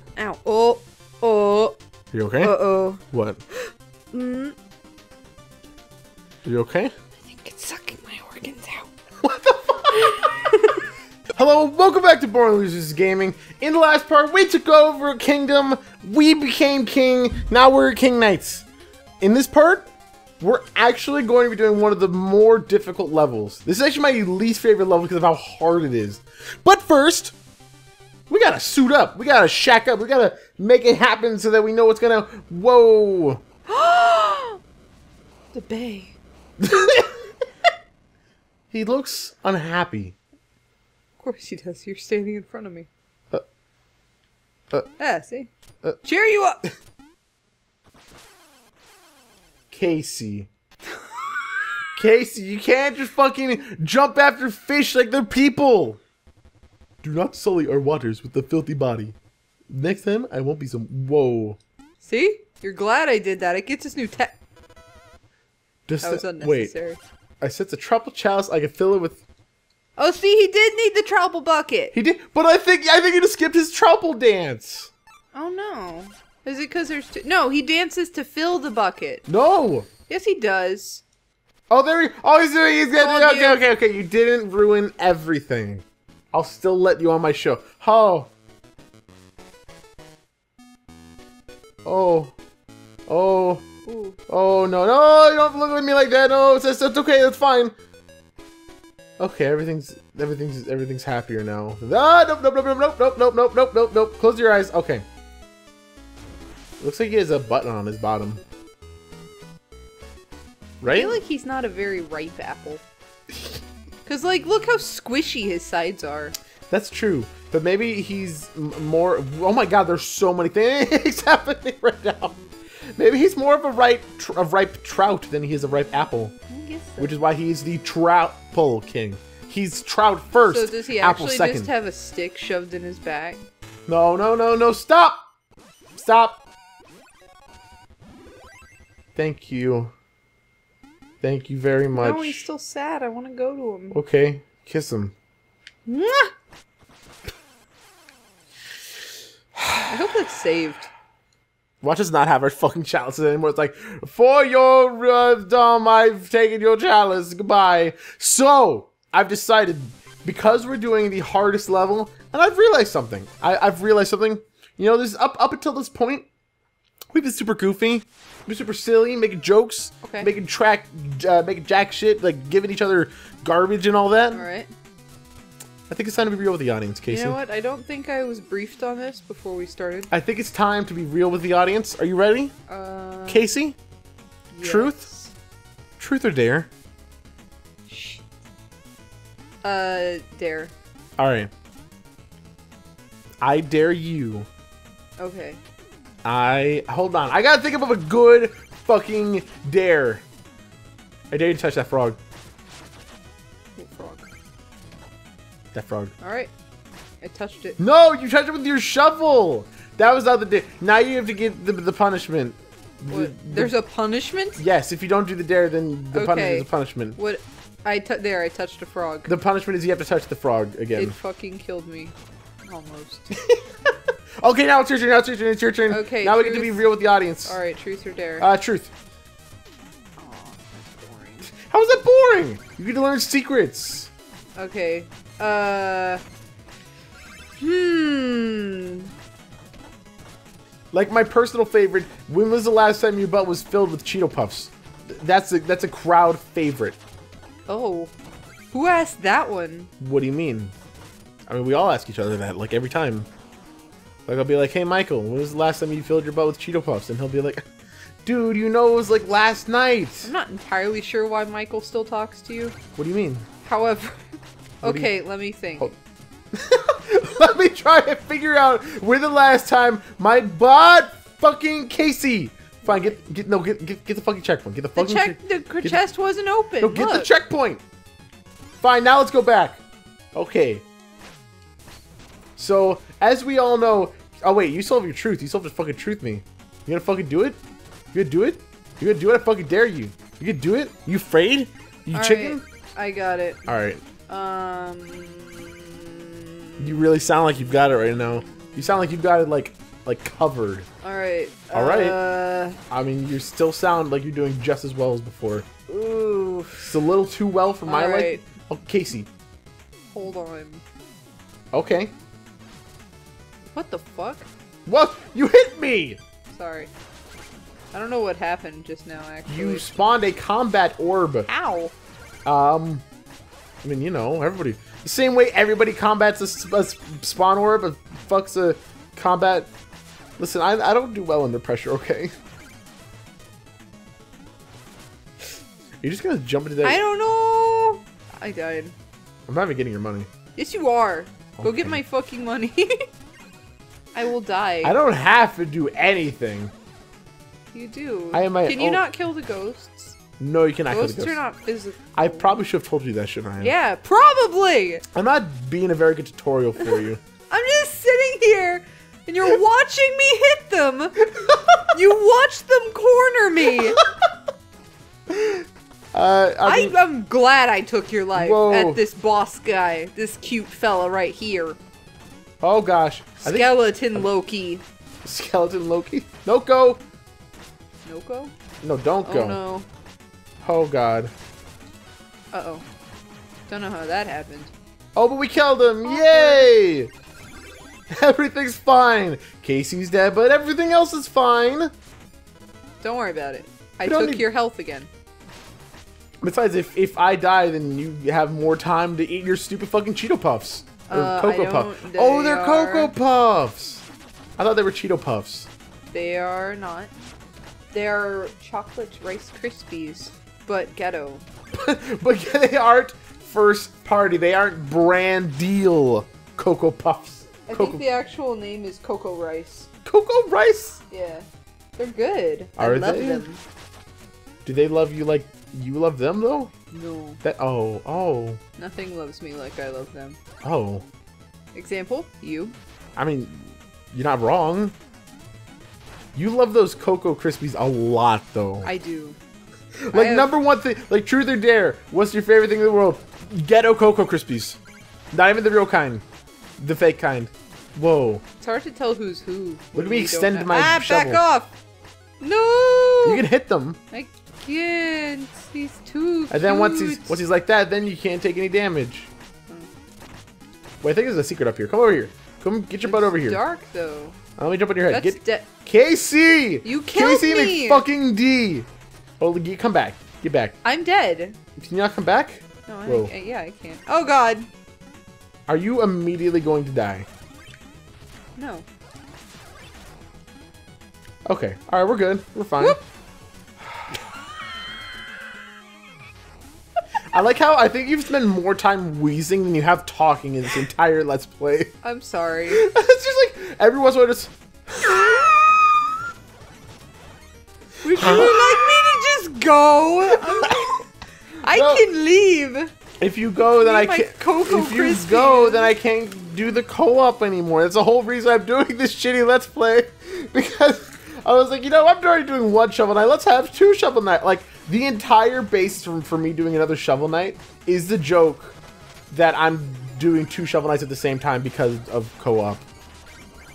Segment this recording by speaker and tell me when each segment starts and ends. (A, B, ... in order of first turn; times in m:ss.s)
0:00.2-0:01.8 A
0:02.1-0:02.5 B
0:02.4-0:03.0 A
0:03.1-0:03.4 B
0:03.5-0:04.5 A
0:06.4-0:06.9 B
0:07.3-0:08.9 A
0:09.2-0:10.4 B
0:10.0-0:10.8 A
0:11.3-0:18.7 B
0:19.2-0:27.3 B
0:28.3-0:33.4 B
0:33.7-0:34.6 A
0:35.5-0:36.1 A
0:36.6-0:37.1 B
0:38.7-0:40.1 B
0:41.2-0:42.9 A
0:45.0-0:45.5 A
0:46.0-0:46.6 A
0:49.7-0:50.5 B
0:52.0-0:56.0 B
0:57.0-0:59.2 B
0:59.7-1:01.6 B
1:02.0-1:04.4 A
1:05.9-1:06.7 B
1:06.0-1:07.0 A
1:07.4-1:09.2 B
1:10.0-1:11.9 A
1:11.9-1:14.9 B
1:15.3-1:19.2 A
1:19.3-1:19.9 B
1:20.1-1:21.0 A
1:21.7-1:28.3 B
1:23.0-1:23.6 A
1:31.8-1:32.3 B
1:33.1-1:33.6 B
1:33.8-1:34.2 A
1:34.3-1:37.7 B
1:39.2-1:45.0 B
1:46.8-1:48.4 B
1:50.8-1:51.2 B
1:50.9-1:52.8 A
1:53.3-1:53.6 B
1:54.0-1:56.3 A
1:56.7-2:02.4 B
2:03.0-2:06.3 B
2:06.5-2:07.2 A
2:07.0-2:11.7 B
2:10.4-2:13.4 A
2:13.9-2:15.2 B
2:15.9-2:16.4 B
2:19.2-2:19.9 B
2:21.2-2:22.4 B
2:21.9-2:24.0 A
2:23.9-2:25.1 B
2:25.8-2:26.3 A
2:29.6-2:29.9 B
2:29.9-2:30.9 A
2:31.8-2:46.2 B
2:47.1-2:54.4 B
2:50.0-2:50.3 A
2:54.3-2:54.7 A
2:55.9-2:57.4 B
2:57.1-3:00.1 A
3:00.1-3:02.5 B
3:02.7-3:03.5 A
3:03.3-3:03.8 B
3:04.5-3:05.3 A
3:04.6-3:05.0 B
3:06.0-3:06.7 B
3:07.9-3:08.2 A
3:09.6-3:10.7 A
3:11.2-3:11.5 B
3:13.4-3:14.5 B
3:15.2-3:15.6 A
3:16.2-3:20.2 B
3:21.3-3:22.2 B
3:23.8-3:24.3 A
3:25.7-3:26.1 B
3:26.2-3:26.5 A
3:27.2-3:27.8 A
3:27.8-3:33.7 B
3:33.1-3:34.6 A
3:34.6-3:37.2 B
3:36.1-3:39.3 A
3:39.2-3:41.2 B
3:40.9-3:43.3 A
3:43.3-3:43.9 B
3:44.4-3:47.6 B
3:45.9-3:46.8 A
3:47.4-3:48.5 A
3:48.4-3:48.9 B
3:50.2-3:51.5 A
3:51.5-3:54.1 B
3:54.6-3:56.2 A
3:57.6-3:59.1 A
4:00.9-4:07.0 B
4:07.7-4:08.1 A
4:08.7-4:09.9 A
4:10.0-4:10.7 B
4:11.5-4:13.3 B
4:14.3-4:17.6 B
4:18.2-4:20.3 B
4:20.2-4:22.8 A
4:23.0-4:23.4 B
4:23.6-4:24.2 A
4:24.8-4:25.9 A
4:24.8-4:25.1 B
4:26.5-4:36.0 B
4:32.8-4:33.2 A
4:35.0-4:37.3 A
4:36.8-4:37.8 B
4:38.8-4:39.8 B
4:40.3-4:40.8 B
4:42.6-4:47.6 B
4:48.1-4:52.6 B
4:52.1-4:53.6 A
4:53.7-4:54.0 B
4:54.3-4:57.1 A
4:56.8-5:00.9 B
4:58.3-4:59.1 A
5:01.0-5:02.8 A
5:01.7-5:02.2 B
5:02.9-5:05.7 B
5:05.9-5:07.0 A
5:06.8-5:09.3 B
5:07.9-5:08.4 A
5:10.1-5:10.8 A
5:11.7-5:12.1 B
5:13.7-5:14.5 A
5:14.8-5:16.2 B
5:16.5-5:16.9 A
5:17.9-5:20.0 A
5:19.5-5:21.5 B
5:21.5-5:21.9 A
5:22.4-5:23.0 B
5:23.8-5:29.7 B
5:30.4-5:32.3 B
5:36.0-5:37.0 B
5:36.8-5:38.9 A
5:39.5-5:40.3 B
5:40.6-5:43.0 A
5:41.6-5:42.0 B
5:44.1-5:45.0 A
5:44.8-5:46.7 B
5:47.7-5:50.2 A
5:48.3-5:49.0 B
5:50.4-5:51.4 B
5:50.9-5:52.6 A
5:52.1-5:53.7 B
5:53.6-5:55.0 A
5:55.1-5:57.2 B
5:57.5-6:01.2 A
6:01.3-6:01.8 B
6:01.9-6:04.0 A
6:05.3-6:07.0 B
6:06.6-6:11.8 A
6:08.3-6:09.0 B
6:12.6-6:14.3 B
6:13.4-6:14.8 A
6:15.2-6:17.0 B
6:18.0-6:18.5 A
6:18.8-6:19.6 B
6:19.2-6:19.9 A
6:20.6-6:21.3 B
6:22.5-6:22.8 A
6:23.7-6:24.7 A
6:25.1-6:27.1 B
6:26.0-6:26.7 A
6:28.1-6:31.9 B
6:33.0-6:35.1 A
6:34.0-6:34.4 B
6:36.4-6:44.0 B
6:41.1-6:43.1 A
6:44.6-6:45.7 B
6:46.1-6:47.1 A
6:47.9-6:51.4 A
6:51.7-6:58.0 B
6:57.7-6:59.9 A
7:00.0-7:01.0 B
7:01.1-7:03.6 A
7:02.8-7:03.5 B
7:04.6-7:06.7 B
7:06.9-7:07.4 A
7:07.4-7:08.6 B
7:08.8-7:10.4 A
7:10.6-7:11.0 B
7:11.7-7:12.8 A
7:13.2-7:14.9 B
7:16.3-7:18.9 B
7:18.8-7:19.4 A
7:20.0-7:24.8 B
7:20.1-7:20.5 A
7:25.3-7:26.2 B
7:26.8-7:28.4 B
7:28.6-7:31.7 A
7:29.9-7:31.4 B
7:32.4-7:33.4 A
7:33.2-7:34.0 B
7:34.1-7:37.4 A
7:36.5-7:39.3 B
7:41.0-7:43.6 B
7:43.0-7:44.4 A
7:44.6-7:48.9 B
7:45.1-7:45.7 A
7:46.8-7:48.0 A
7:49.4-7:50.8 B
7:50.8-7:51.6 A
7:51.8-7:53.3 B
7:52.9-7:54.7 A
7:55.7-7:57.3 B
7:58.6-7:58.8 A
8:01.5-8:03.0 B
8:07.3-8:11.9 B
8:12.0-8:12.8 A
8:12.7-8:15.6 B
8:18.0-8:21.0 A
8:18.1-8:18.9 B
8:20.3-8:21.0 B
8:21.6-8:22.9 A
8:21.7-8:22.0 B
8:23.2-8:38.8 B
8:23.8-8:25.9 A
8:39.3-8:42.8 B